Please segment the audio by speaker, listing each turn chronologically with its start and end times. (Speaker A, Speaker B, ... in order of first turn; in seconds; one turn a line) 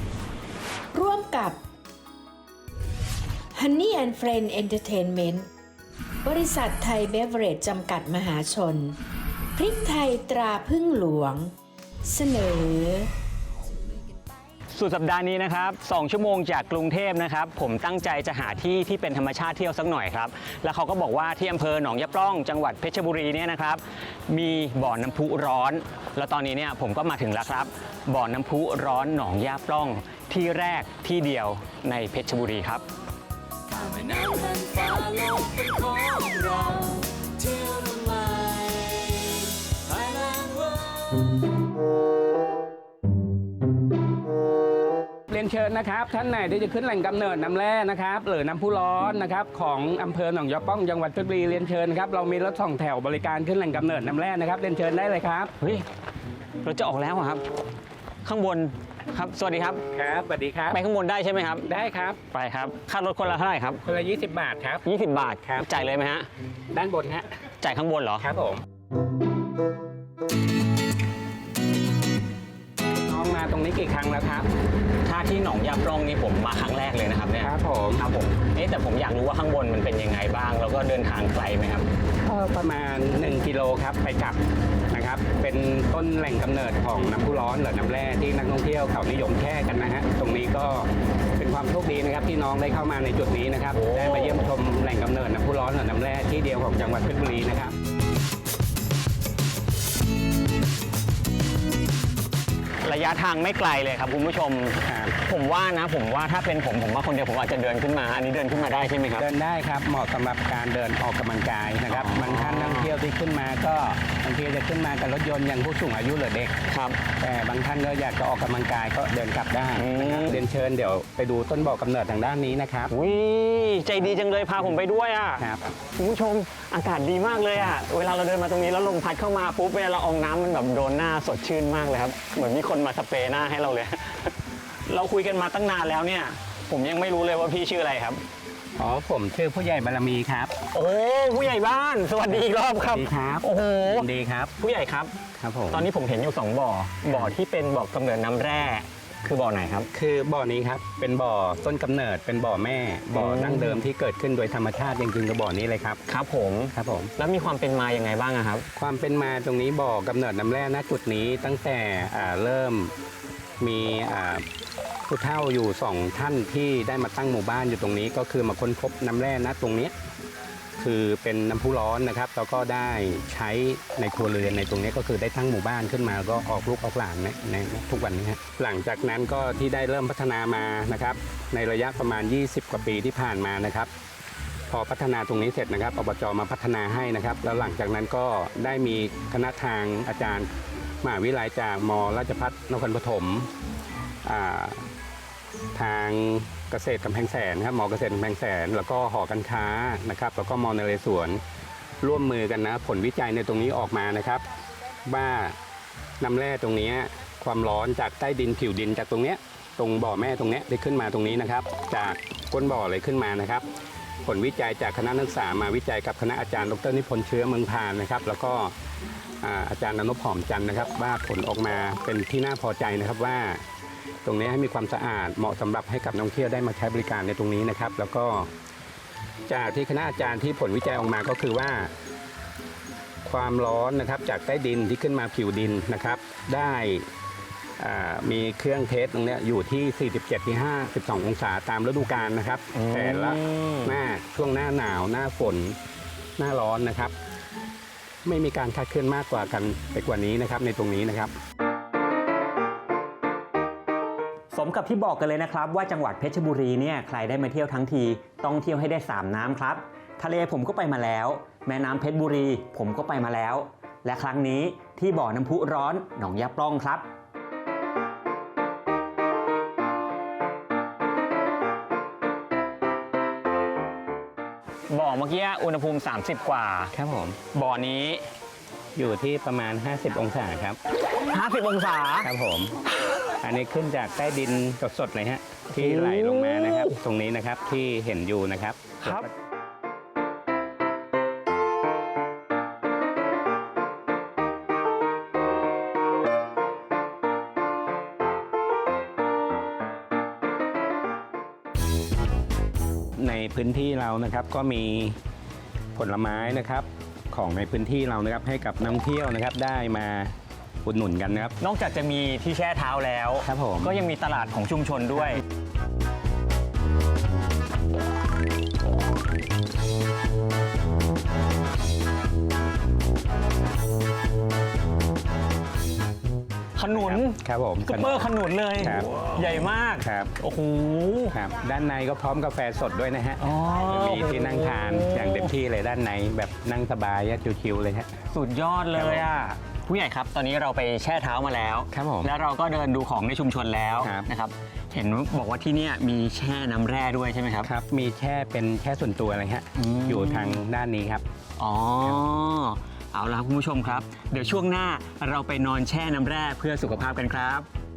Speaker A: 0.9-1.6
Speaker A: 3.5-5.5
Speaker A: 6.2-9.0
Speaker A: 9.5-11.5
Speaker A: 12.1-13.1
Speaker B: 14.7-32.9
Speaker C: 33.8-37.0
Speaker C: 37.6-37.9
Speaker D: 45.3-55.5
Speaker B: 55.6-55.8
Speaker B: 56.6-57.4
Speaker B: 58.2-59.8
Speaker D: 59.9-60.8
Speaker B: 60.7-61.7
Speaker D: 61.6-62.2
Speaker B: 62.3-63.8
Speaker D: 63.8-64.9
Speaker B: 64.8-66.3
Speaker D: 66.7-67.3
Speaker B: 67.6-68.3
Speaker D: 68.2-68.6
Speaker D: 73.1-74.5
Speaker B: 75.0-81.9
Speaker D: 77.4-78.0
Speaker D: 82.2-84.4
Speaker D: 84.9-97.7
Speaker B: 93.7-94.5
Speaker B: 102.8-109.3
Speaker D: 104.8-105.2
Speaker D: 109.2-116.6
Speaker B: 111.9-113.0
Speaker B: 116.7-117.0
Speaker D: 117.2-122.9
Speaker B: 119.8-120.4
Speaker B: 122.9-134.3
Speaker B: 134.9-138.2
Speaker D: 138.8-140.5
Speaker B: 140.7-145.1
Speaker D: 142.9-144.5
Speaker D: 145.4-145.9
Speaker B: 145.7-149.9
Speaker D: 147.1-147.3
Speaker D: 149.9-156.0
Speaker B: 153.1-153.8
Speaker B: 156.1-158.6
Speaker D: 156.7-157.1
Speaker D: 158.8-162.9
Speaker D: 163.6-164.4
Speaker D: 165.1-169.9
Speaker D: 170.8-183.9
Speaker D: 184.7-190.5
Speaker D: 191.0-193.5
Speaker D: 194.2-194.9
Speaker D: 195.7-201.4
Speaker D: 202.0-204.4
Speaker D: 205.1-205.6
Speaker D: 206.2-213.7
Speaker D: 214.2-218.7
Speaker D: 219.4-223.6
Speaker D: 224.2-228.5
Speaker D: 229.5-231.9
Speaker D: 233.2-237.1
Speaker D: 237.8-245.8
Speaker B: 242.7-244.0
Speaker D: 246.4-247.1
Speaker D: 248.2-251.3
Speaker B: 254.5-267.1
Speaker B: 274.9-276.9
Speaker D: 276.9-277.4
Speaker B: 277.5-278.2
Speaker D: 278.9-280.8
Speaker B: 281.3-282.3
Speaker D: 282.2-282.7
Speaker D: 283.4-289.3
Speaker B: 285.7-287.0
Speaker B: 289.0-289.3
Speaker D: 303.2-305.2
Speaker D: 305.9-311.5
Speaker B: 311.6-315.4
Speaker D: 313.4-313.9
Speaker B: 326.8-331.4
Speaker D: 326.9-329.1
Speaker D: 330.0-330.3
Speaker D: 331.3-338.1
Speaker B: 333.4-335.5
Speaker B: 338.3-347.7
Speaker D: 338.9-339.3
Speaker D: 341.9-342.3
Speaker D: 344.0-344.3
Speaker D: 347.6-351.2
Speaker B: 349.8-350.6
Speaker B: 351.6-357.7